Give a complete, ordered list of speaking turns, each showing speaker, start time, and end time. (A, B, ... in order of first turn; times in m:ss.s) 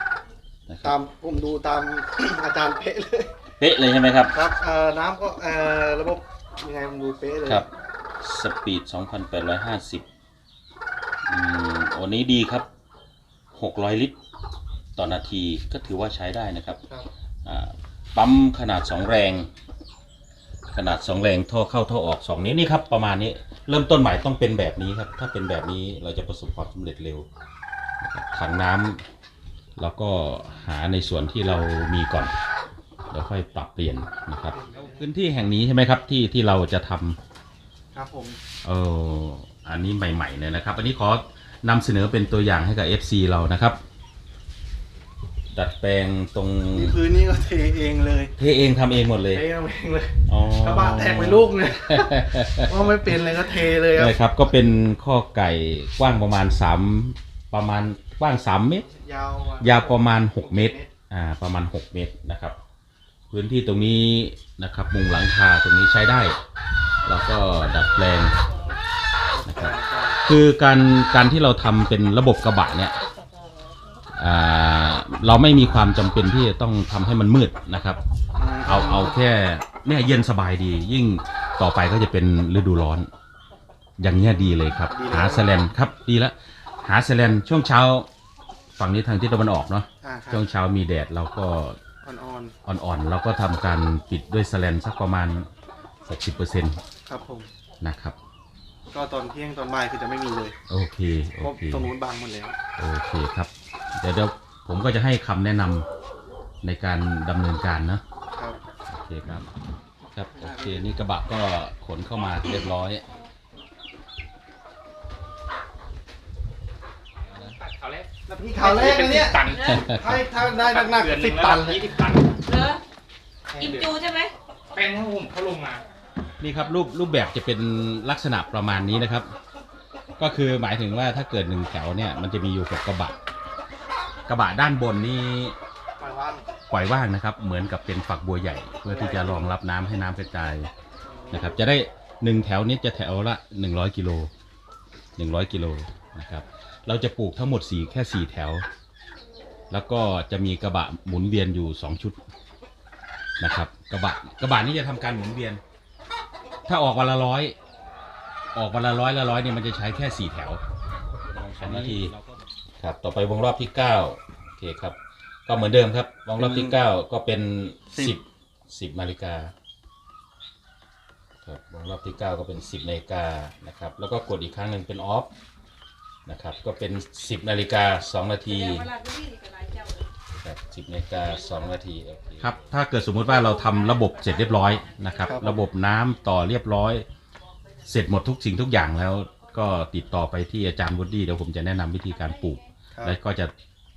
0:00.7-0:00.9 A
0:00.8-0:03.3 B
0:03.6-0:04.3 A
0:04.3-0:07.6 B
0:08.2-0:10.1 A
0:11.3-0:12.7 A
0:13.5-0:14.2 A
0:15.0-0:16.8 A
0:17.4-0:19.5 A
0:20.7-0:27.3 A
0:28.0-0:29.0 A
0:29.8-0:32.3 A
0:33.1-0:37.2 A
0:34.5-0:35.0 B
0:37.9-0:38.4 B
0:38.6-0:43.8 A
0:45.5-0:47.0 A
0:46.7-0:48.3 B
0:48.4-0:49.4 A
0:49.3-0:54.2 B
0:50.3-0:58.9 A
0:58.9-1:00.9 B
0:59.6-1:02.6 A
1:03.3-1:06.4 A
1:07.0-1:08.3 A
1:09.3-1:10.2 B
1:09.4-1:09.7 A
1:10.2-1:13.0 A
1:14.2-1:18.0 A
1:18.4-1:19.2 B
1:18.6-1:23.1 A
1:24.0-1:28.1 A
1:24.8-1:25.5 B
1:28.8-1:31.8 A
1:30.0-1:30.4 B
1:32.0-1:32.5 B
1:32.6-1:35.5 A
1:36.0-1:36.8 A
1:37.1-1:37.5 B
1:37.8-1:38.1 A
1:38.9-1:40.5 B
1:40.7-1:41.9 A
1:41.4-1:42.6 B
1:42.8-1:45.9 A
1:46.6-1:48.0 A
1:48.3-1:48.6 B
1:48.9-1:49.4 A
1:50.1-1:53.0 A
1:50.4-1:50.8 B
1:57.3-2:02.6 C
1:58.3-2:01.8 B
1:59.6-2:00.0 A
2:02.5-2:02.8 D
2:03.6-2:03.8 C
2:03.6-2:03.9 B
2:03.6-2:04.3 D
2:04.7-2:05.8 C
2:06.4-2:09.3 A
2:10.2-2:13.2 A
2:14.3-2:15.6 A
2:16.0-2:16.5 B
2:16.7-2:20.7 A
2:18.9-2:19.5 B
2:21.0-2:21.6 B
2:21.3-2:24.3 A
2:25.2-2:28.6 A
2:29.7-2:32.2 A
2:33.4-2:35.6 A
2:36.7-2:37.5 A
2:38.5-2:40.6 A
2:41.3-2:42.1 A
2:41.7-2:42.3 C
2:42.8-2:49.5 A
2:46.4-2:46.7 B
2:51.4-2:55.3 A
2:56.3-2:59.0 A
2:58.9-3:00.0 D
3:00.4-3:07.0 A
3:05.2-3:05.6 B
3:07.8-3:13.5 A